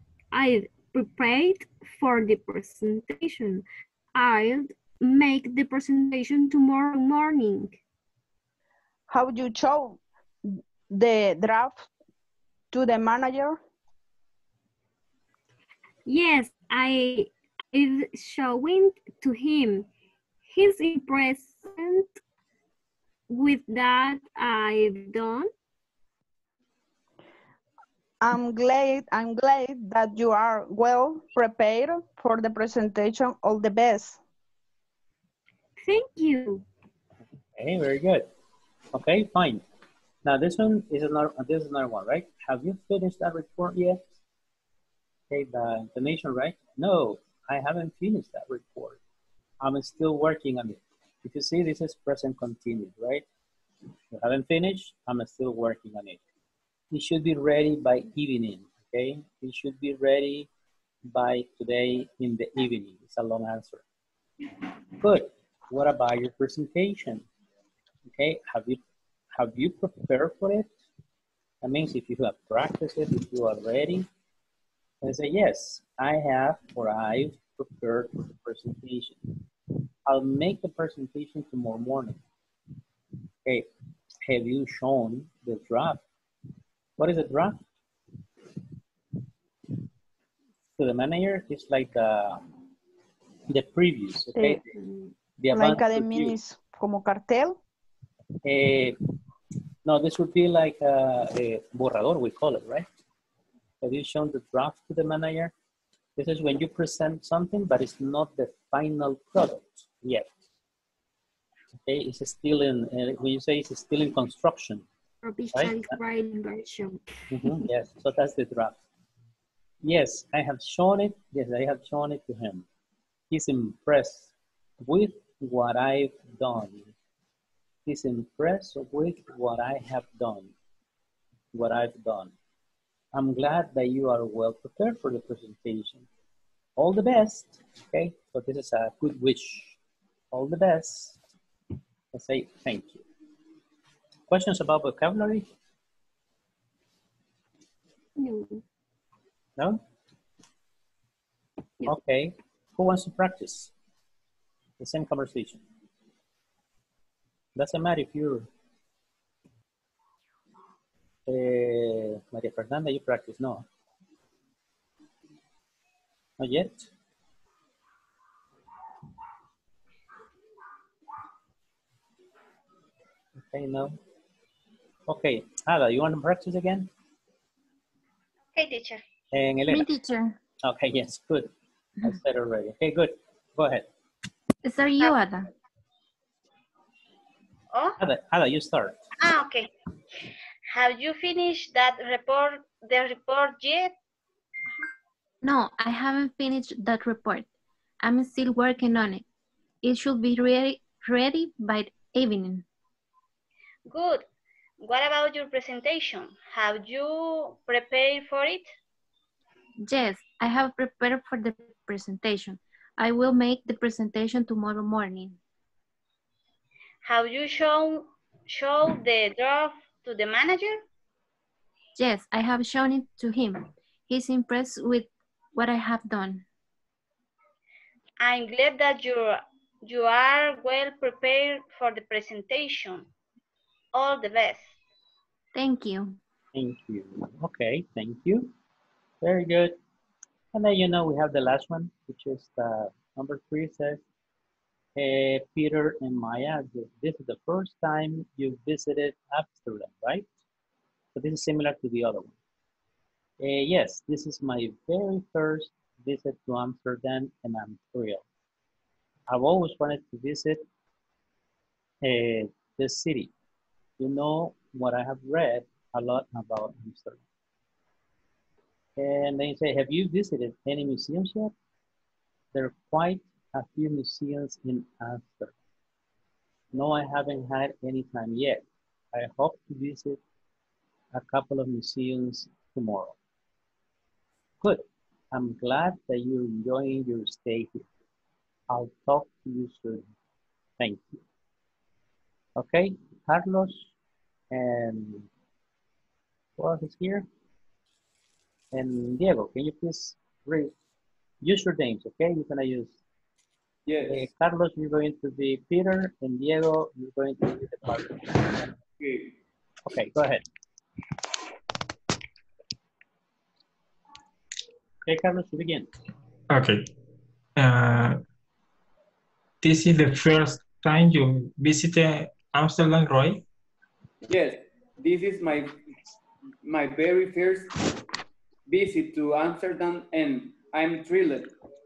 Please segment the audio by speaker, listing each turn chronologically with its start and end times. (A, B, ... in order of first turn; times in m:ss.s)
0:00.3-0:07.8 A
0:09.1-0:11.9 B
0:12.7-0:13.6 B
0:16.0-0:19.9 A
0:20.5-0:22.1 A
0:23.3-0:25.5 A
0:28.2-0:34.2 B
0:35.8-0:36.6 A
0:37.6-0:38.3 C
0:38.9-0:39.6 C
0:40.2-0:44.0 C
0:45.3-0:49.0 C
0:49.6-0:53.2 C
0:54.1-0:56.2 C
0:56.9-1:00.5 C
1:01.1-1:03.8 C
1:05.0-1:07.2 C
1:08.1-1:08.8 C
1:09.3-1:10.7 C
1:11.6-1:14.1 C
1:15.0-1:19.2 C
1:20.0-1:22.2 C
1:24.2-1:26.0 C
1:27.0-1:27.6 C
1:30.8-1:32.4 C
1:33.5-1:34.7 C
1:34.4-1:34.6 B
1:35.4-1:36.3 C
1:35.5-1:37.6 B
1:38.4-1:39.0 C
1:39.8-1:42.9 C
1:43.8-1:45.5 C
1:46.2-1:50.3 C
1:51.8-1:54.8 C
1:55.2-1:57.0 A
1:55.5-1:56.0 C
1:57.3-1:58.8 C
1:59.8-2:02.6 C
2:03.3-2:06.9 C
2:07.8-2:10.5 C
2:11.5-2:12.3 C
2:13.1-2:16.1 C
2:16.8-2:19.8 C
2:20.3-2:21.2 C
2:22.1-2:23.0 C
2:24.3-2:25.5 C
2:28.2-2:28.6 A
2:31.8-2:33.7 C
2:34.8-2:35.6 C
2:37.5-2:38.5 C
2:41.3-2:43.6 C
2:46.4-2:46.9 C
2:53.4-2:54.0 C
2:55.1-2:56.9 C
2:58.5-2:59.0 D
2:59.3-2:59.9 C
2:59.7-3:00.4 E
3:00.6-3:03.9 C
3:04.6-3:05.5 E
3:08.0-3:09.0 C
3:09.2-3:09.7 D
3:10.7-3:13.9 D
3:15.4-3:17.5 E
3:18.0-3:19.2 E
3:19.8-3:22.6 E
3:23.9-3:24.2 D
3:24.8-3:28.7 D
3:29.8-3:35.4 E
3:37.0-3:40.8 D
3:42.0-3:46.4 E
3:48.2-3:53.1 D
3:53.9-3:54.7 D
3:55.5-3:56.2 E
3:56.5-3:58.5 C
3:59.2-3:59.8 C
4:00.5-4:04.0 C
4:05.0-4:10.3 C
4:11.1-4:12.3 C
4:13.4-4:18.2 C
4:19.3-4:20.6 C
4:22.0-4:23.3 C
4:24.0-4:27.2 C
4:29.0-4:31.5 C
4:32.5-4:35.5 C
4:36.7-4:40.2 C
4:41.1-4:43.2 C
4:44.6-4:47.9 C
4:48.7-4:50.0 C
4:50.8-4:51.2 C
4:52.6-4:53.9 C
4:54.5-4:55.3 C
4:56.6-4:57.2 C
4:58.7-5:00.7 C
5:01.4-5:03.0 C
5:03.8-5:04.2 F
5:04.0-5:08.7 C
5:09.0-5:09.3 F
5:09.8-5:10.4 C
5:15.0-5:15.9 C
5:16.5-5:16.9 G
5:17.6-5:18.2 G
5:19.6-5:23.4 G
5:24.2-5:25.8 F
5:26.6-5:27.7 F
5:28.7-5:31.5 F